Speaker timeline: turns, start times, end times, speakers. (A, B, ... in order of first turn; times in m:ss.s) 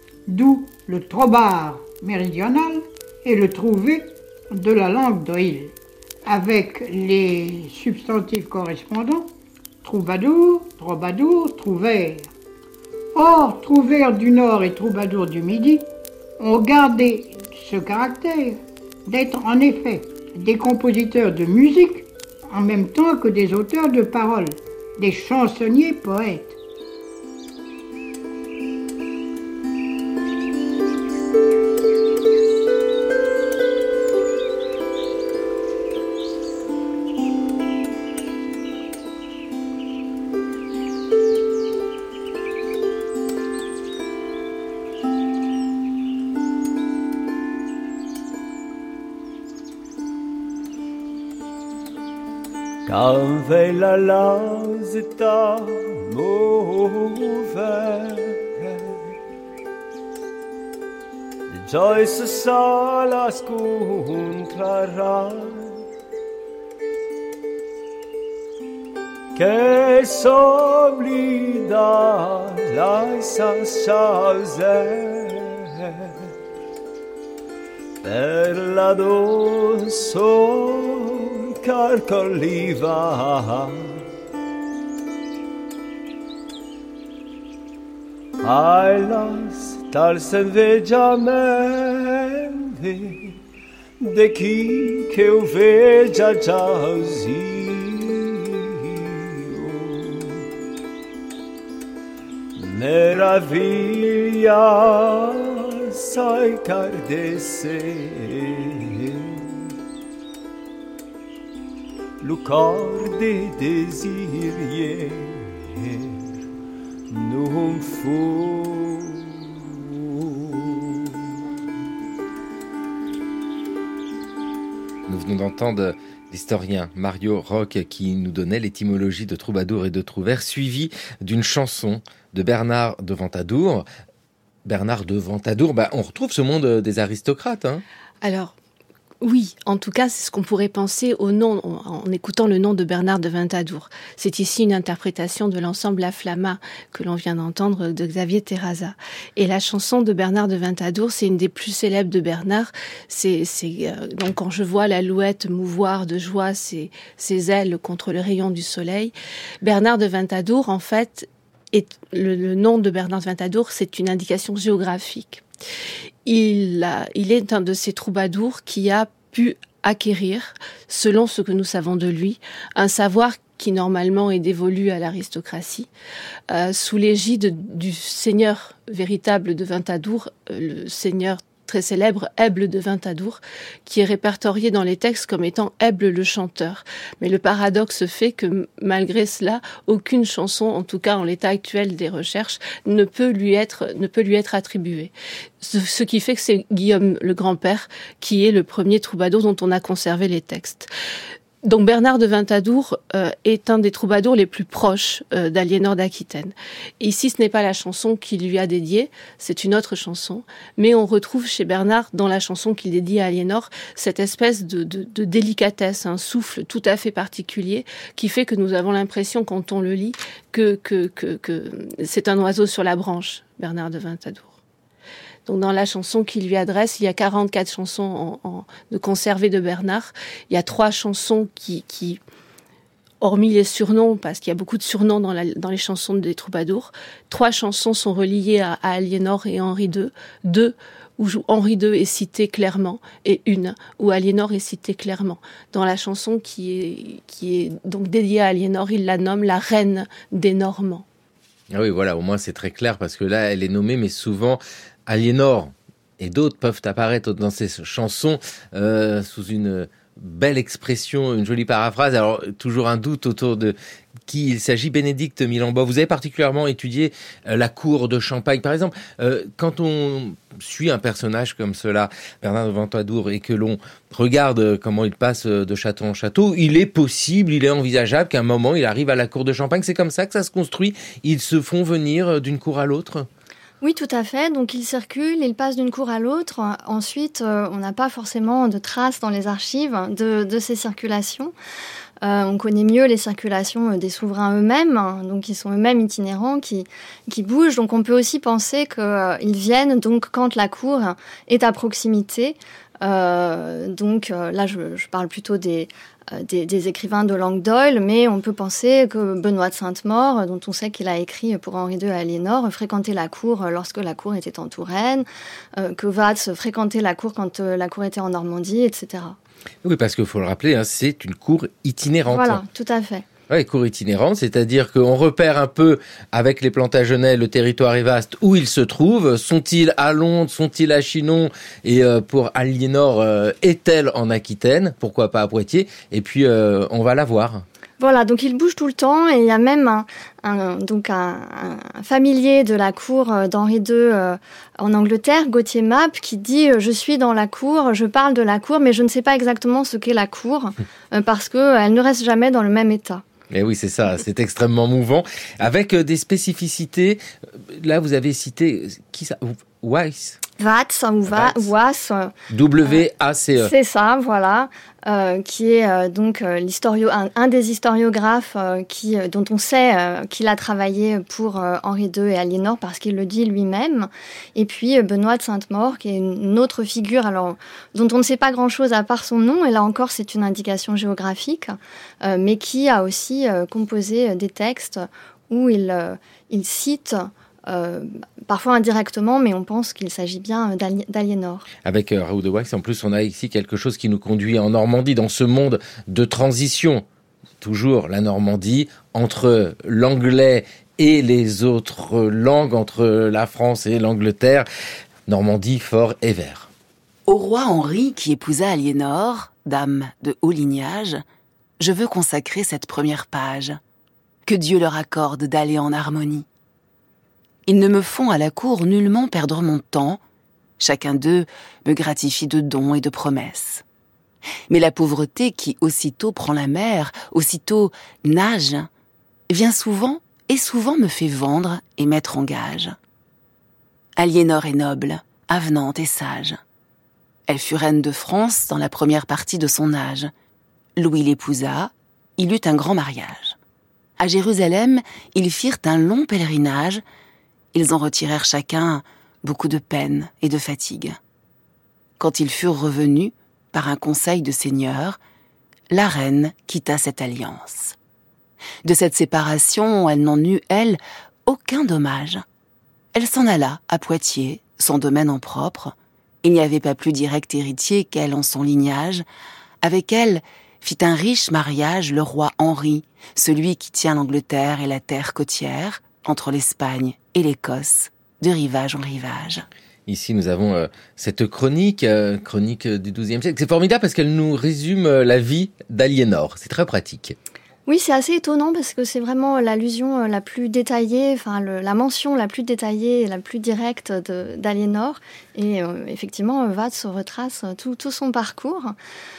0:00.3-0:05.7 A
0:06.2-0:09.3 A
0:09.8-0:12.3 A
0:13.1-0:15.8 A
0:16.4-0:26.6 A
0:52.8-0:58.9 B
1:01.5-1:05.8 B
1:09.3-1:16.1 B
1:18.0-1:24.0 B
1:28.4-1:33.3 B
1:34.0-1:40.4 B
1:42.6-1:49.4 B
1:52.2-1:56.2 B
1:57.1-2:01.0 B
2:05.1-2:13.8 C
2:14.6-2:17.8 C
2:18.2-2:18.5 D
2:19.2-2:45.4 D
2:46.2-2:55.9 D
2:56.5-3:20.9 D
3:21.6-3:44.5 D
3:45.4-3:52.2 D
3:53.2-4:11.0 D
4:11.7-4:23.8 C
4:24.3-4:43.3 C
4:43.8-4:51.5 E
4:52.2-5:19.4 E
5:19.8-5:22.6 C
5:22.3-5:23.2 E
5:23.5-5:37.6 C
5:38.0-5:53.2 E
5:53.5-6:00.4 C
6:00.6-6:02.3 E
6:01.3-6:01.7 C
6:02.5-6:03.7 C
6:03.6-6:31.7 E
6:31.8-6:37.0 C
6:37.6-6:44.6 C
6:45.3-6:46.7 C
6:47.3-6:51.2 F
6:51.8-6:53.8 F
6:54.4-6:56.4 F
6:57.7-7:00.2 F
7:00.8-7:03.8 F
7:04.7-7:08.9 F
7:09.5-7:13.0 F
7:14.2-7:16.6 F
7:17.5-7:20.3 F
7:21.0-7:23.6 F
7:24.2-7:27.0 F
7:27.7-7:31.2 F
7:32.2-7:35.2 F
7:35.9-7:38.0 F
7:38.8-7:42.4 F
7:43.1-7:49.2 F
7:49.8-7:59.6 F
8:00.1-8:07.4 C
8:07.9-8:18.9 E